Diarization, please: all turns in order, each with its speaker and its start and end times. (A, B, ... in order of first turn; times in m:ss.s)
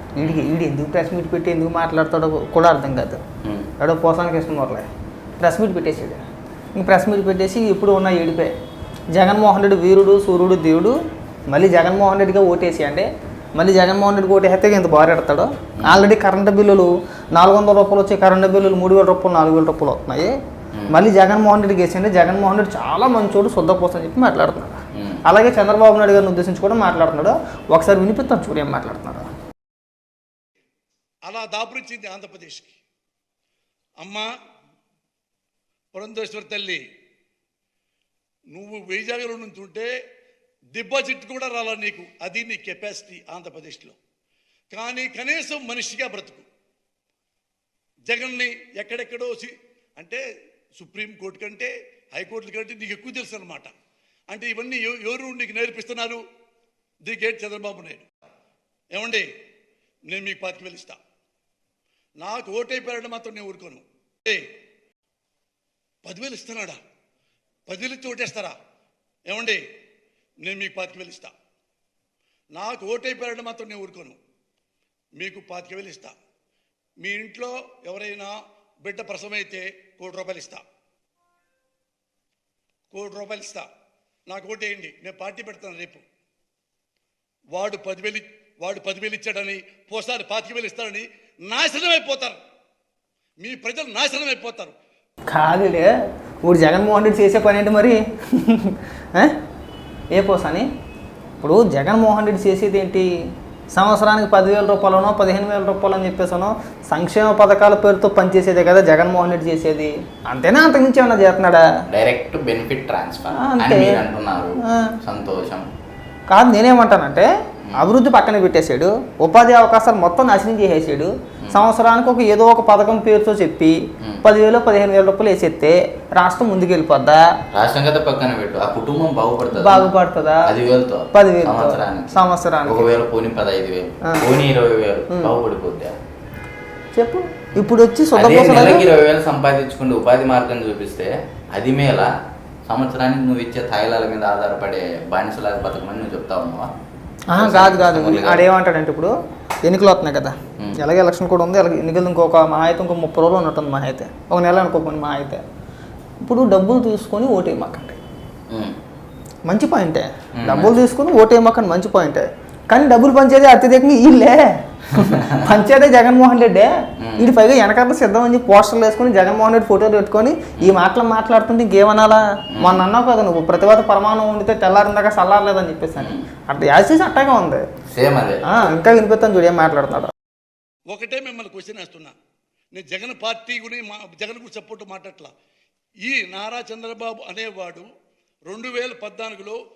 0:00.2-0:03.2 A
0:00.2-0:00.5 B
0:03.4-0:03.7 B
0:03.8-0:04.9 A
0:05.4-0:08.5 A
0:09.1-0:11.0 A
0:11.5-0:20.3 A
0:15.8-0:16.0 B
0:20.9-0:29.3 A
0:25.0-0:25.2 B
0:31.3-0:32.8 C
0:34.0-0:34.3 C
0:35.9-0:36.8 C
0:38.5-0:39.9 C
0:40.7-0:44.0 C
0:44.7-0:46.4 C
0:48.1-0:50.2 C
0:50.8-0:53.7 C
0:54.3-0:56.2 C
0:57.0-0:58.1 C
0:58.9-0:59.3 C
1:00.1-1:01.0 C
1:02.2-1:04.5 C
1:06.0-1:06.8 C
1:07.7-1:08.6 C
1:09.3-1:09.6 C
1:10.4-1:11.3 C
1:12.5-1:14.2 C
1:15.2-1:16.1 C
1:17.0-1:20.6 C
1:22.9-1:23.7 C
1:24.3-1:26.0 C
1:27.5-1:32.4 C
1:33.4-1:34.8 C
1:35.3-1:35.9 A
1:36.4-1:39.3 A
1:40.1-1:40.7 A
1:41.4-1:43.1 A
1:43.7-1:51.6 A
1:51.9-1:55.7 B
1:53.3-1:54.0 A
1:54.6-1:55.0 A
1:56.3-2:07.2 A
2:07.5-2:09.9 B
2:09.5-2:10.5 A
2:10.4-2:16.0 B
2:11.1-2:12.9 A
2:17.0-2:18.9 A
2:18.2-2:22.1 B
2:22.7-2:26.7 B
2:27.3-2:29.1 A
2:27.4-2:28.5 B
2:29.6-2:35.4 A
2:36.2-2:38.0 A
2:39.5-2:57.6 A
2:40.4-2:40.8 B
2:45.0-2:45.4 B
2:47.0-2:47.3 B
2:52.5-2:52.8 B
2:56.0-2:56.2 B
2:57.9-2:58.4 B
2:58.5-3:00.1 A
3:00.9-3:02.2 C
3:02.7-3:05.3 C
3:06.0-3:07.9 C
3:08.5-3:09.6 C